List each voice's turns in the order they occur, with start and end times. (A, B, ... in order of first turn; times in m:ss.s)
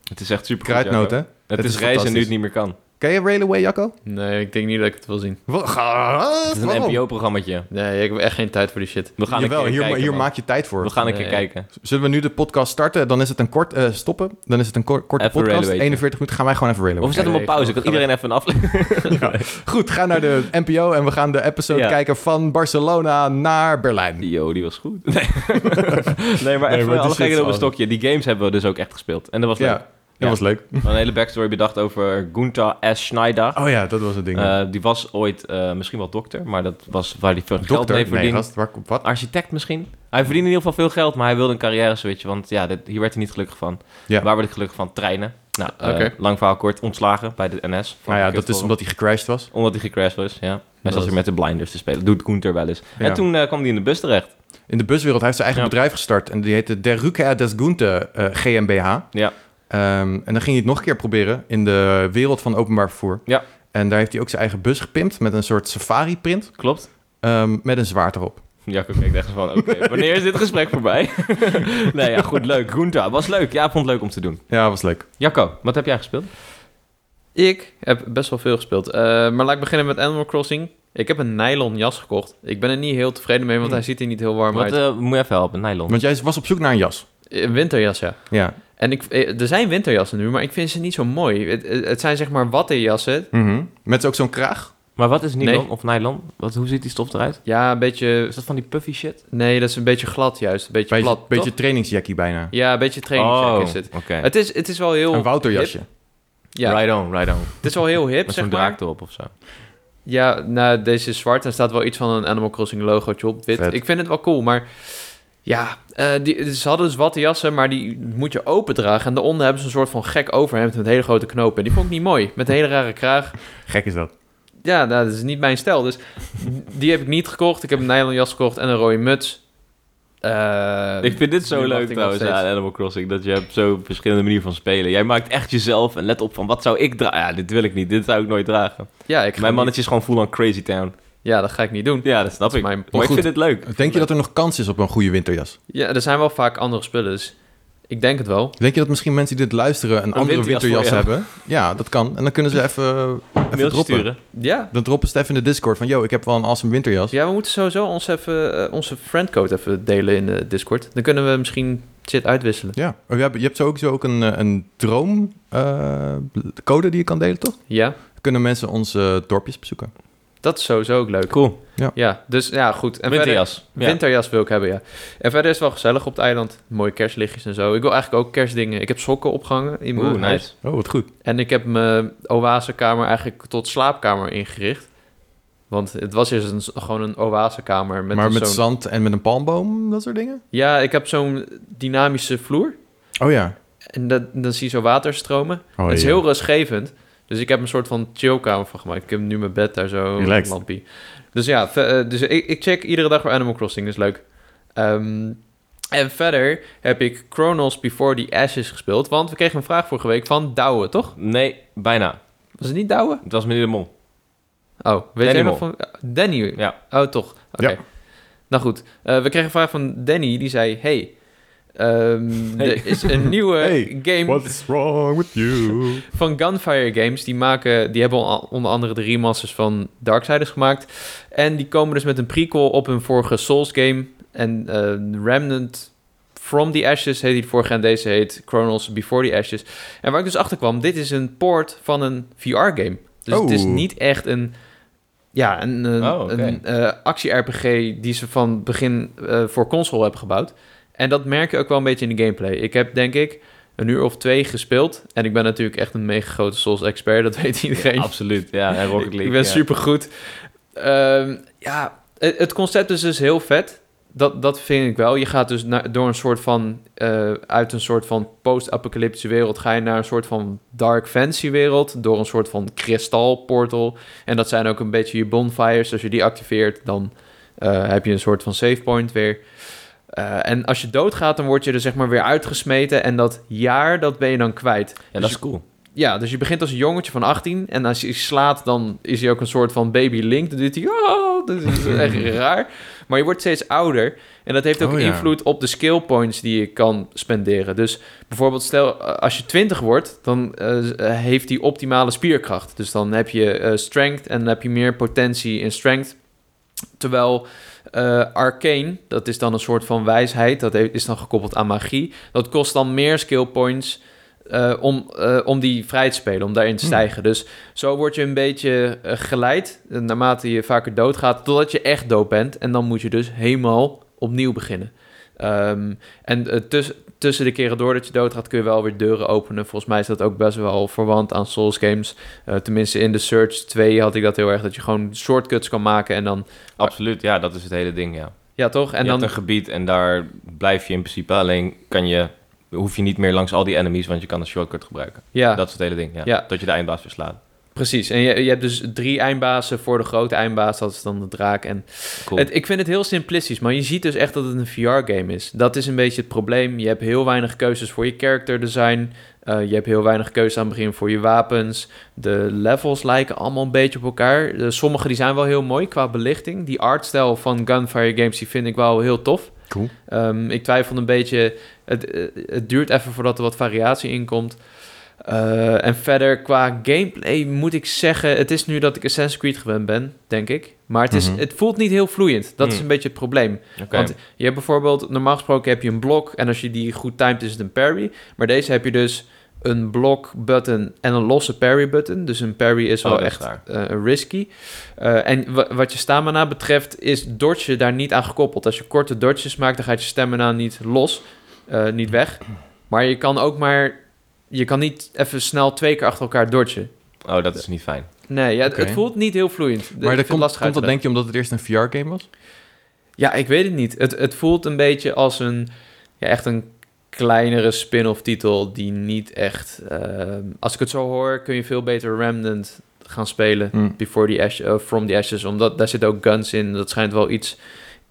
0:00.1-0:02.8 A
0:00.6-0:02.4 B
0:03.0-0:04.0 B
0:04.0-0:05.4 C
0:05.5-0:07.0 B
0:06.5-0:07.7 A
0:07.7-0:09.2 C
0:09.2-0:11.7 A
0:09.3-0:10.9 B
0:11.0-0:11.4 C
0:11.8-0:17.5 B
0:15.2-0:16.0 A
0:17.0-0:19.5 A
0:17.2-0:18.0 C
0:19.1-0:24.3 B
0:21.7-0:22.0 A
0:24.2-0:48.9 A
0:26.6-0:27.7 B
0:29.6-0:30.9 B
0:33.6-0:34.6 B
0:37.6-0:39.1 B
0:45.7-0:46.1 C
0:48.1-0:49.5 B
0:49.5-0:54.3 A
0:50.8-0:51.1 C
0:54.7-1:08.7 B
1:06.6-1:06.9 A
1:08.7-1:14.4 A
1:09.7-1:10.1 B
1:14.5-1:15.0 B
1:15.1-1:16.3 A
1:17.4-1:24.8 C
1:24.5-1:26.0 A
1:25.9-1:27.0 B
1:27.3-1:33.3 C
1:33.3-1:34.7 B
1:35.0-1:37.5 A
1:35.4-1:35.7 C
1:37.4-1:38.4 C
1:38.3-1:39.2 A
1:39.3-1:41.5 C
1:40.9-1:42.5 B
1:42.5-1:45.8 C
1:43.2-1:44.3 A
1:45.1-1:45.9 B
1:46.5-1:48.8 C
1:46.6-1:49.3 A
1:50.0-2:03.4 C
1:53.5-1:53.8 B
2:03.6-2:04.1 B
2:04.6-2:09.4 C
2:10.2-2:12.4 C
2:11.0-2:20.9 A
2:19.1-2:19.7 C
2:21.2-2:23.3 C
2:22.0-2:24.1 A
2:22.9-2:25.6 B
2:25.7-2:27.4 C
2:27.9-2:28.6 C
2:28.6-2:37.1 B
2:30.2-2:31.3 A
2:33.5-2:34.2 A
2:34.3-2:34.7 C
2:37.1-2:42.8 C
2:42.8-2:49.9 B
2:47.7-2:48.0 C
2:50.4-3:00.6 C
2:51.3-2:51.6 A
2:53.1-2:54.0 A
3:00.0-3:00.5 A
3:00.5-3:01.1 B
3:01.2-3:04.9 C
3:05.7-3:08.6 C
3:08.1-3:10.4 B
3:10.5-3:12.8 C
3:13.2-3:13.5 B
3:13.9-3:25.4 C
3:15.8-3:16.2 B
3:20.2-3:20.5 B
3:25.9-3:31.2 C
3:31.2-3:32.2 A
3:32.6-3:33.2 C
3:33.2-3:33.9 A
3:34.8-3:37.9 C
3:35.2-3:35.7 A
3:38.5-3:41.2 C
3:41.8-3:44.5 C
3:42.6-3:43.3 A
3:43.3-3:46.1 B
3:46.1-4:04.5 C
4:03.3-4:03.8 B
4:05.3-4:39.4 C
4:06.0-4:06.6 A
4:17.8-4:19.6 A
4:40.1-5:06.2 C
4:45.1-4:45.6 A
4:54.8-4:55.3 B
5:07.0-5:36.9 C
5:36.8-5:47.4 A
5:38.6-5:39.3 C
5:45.3-5:46.4 C
5:47.8-6:14.6 C
6:15.2-6:46.9 C
6:21.1-6:21.4 B
6:23.8-6:24.1 A
6:33.0-6:33.6 A
6:47.2-6:48.1 A
6:48.3-6:51.0 C
6:48.7-6:49.0 B
6:50.0-6:52.3 B
6:53.2-6:55.7 C
6:56.2-7:07.6 C